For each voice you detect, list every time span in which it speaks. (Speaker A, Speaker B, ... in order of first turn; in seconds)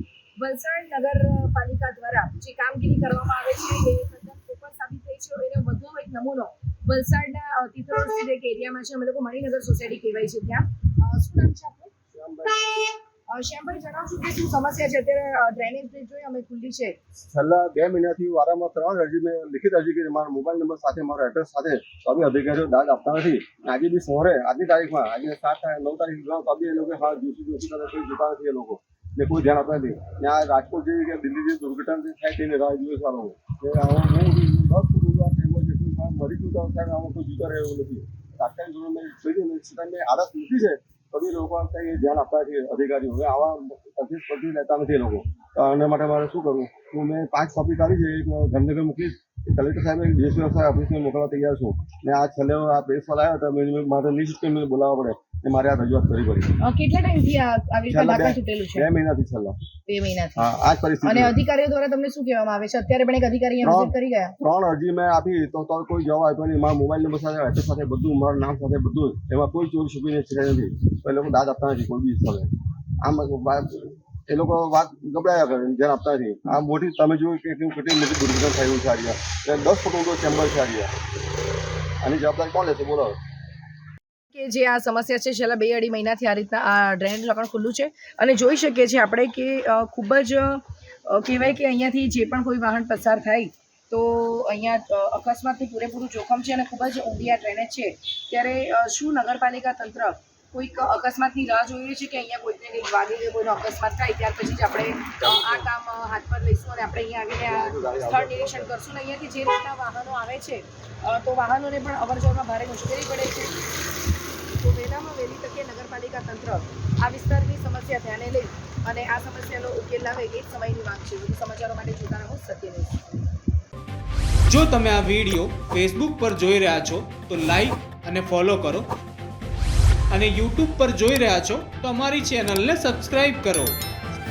Speaker A: 0.4-11.9, 13.3-16.9, 56.6-58.9, 59.9-60.4, 61.0-64.4, 84.3-113.6, 114.5-123.0
Speaker B: 12.1-12.8, 17.3-56.5, 57.9-59.5, 60.4-61.4, 63.6-72.5, 73.0-80.9, 82.0-83.2, 105.2-105.6, 107.4-108.7
Speaker C: 124.5-128.8, 130.1-133.7